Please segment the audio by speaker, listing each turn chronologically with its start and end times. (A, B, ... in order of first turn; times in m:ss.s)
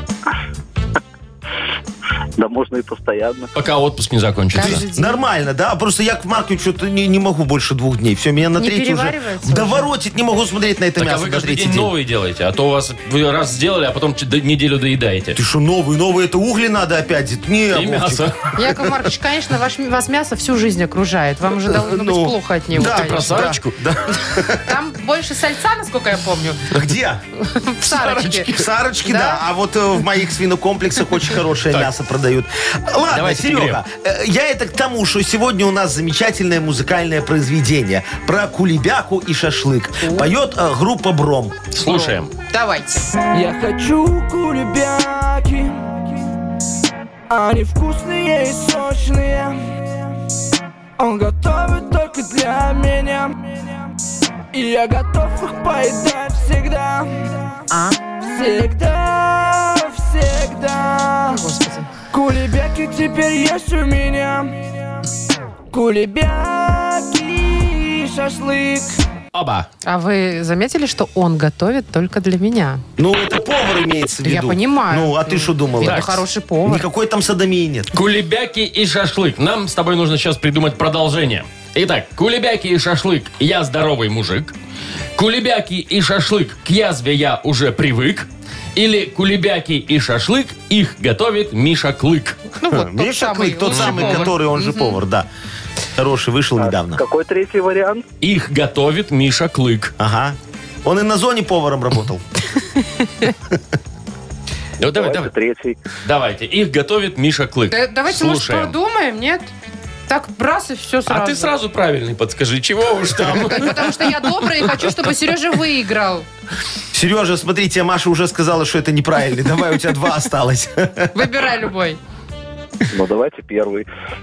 0:02.4-0:03.5 A
0:03.5-0:04.8 B
0:04.5-0:05.2 C
0:04.6-0:11.9 D
0:08.6-0:09.9 C
0:11.0-0:15.4 B
0:15.3-0:18.8 D
0:17.7-0:18.4 B
0:18.6-0:23.5 C
0:21.6-0:24.6 D
0:22.7-0:23.8 B
0:24.5-0:26.7 C
0:26.7-0:27.2 D
0:27.4-0:29.4 C
0:27.9-0:41.6 D
0:33.1-0:33.8 B
0:40.0-0:40.3 C
0:41.7-0:42.3 B
0:41.8-0:43.1 C
0:43.3-0:46.0 E
0:47.3-0:49.6 E
0:51.0-0:53.7 E
0:54.5-0:57.3 E
0:58.3-1:01.4 E
1:01.3-1:01.9 C
1:02.1-1:04.7 E
1:05.7-1:09.0 E
1:09.3-1:09.7 B
1:09.8-1:12.8 C
1:13.0-1:17.9 D
1:14.2-1:16.8 C
1:15.8-1:16.2 B
1:17.9-1:24.5 B
1:25.2-1:32.4 B
1:32.6-1:34.9 C
1:32.7-1:35.3 D
1:33.6-1:34.3 B
1:36.0-1:37.0 D
1:36.6-1:38.0 A
1:38.2-1:39.9 B
1:40.0-1:42.2 D
1:44.8-1:45.3 B
1:44.8-1:45.8 A
1:46.0-1:48.7 B
1:47.7-1:49.5 C
1:50.1-1:51.5 C
1:51.1-1:54.0 B
1:53.4-1:56.2 C
1:56.9-2:01.1 D
2:01.1-2:02.0 C
2:02.9-2:03.9 A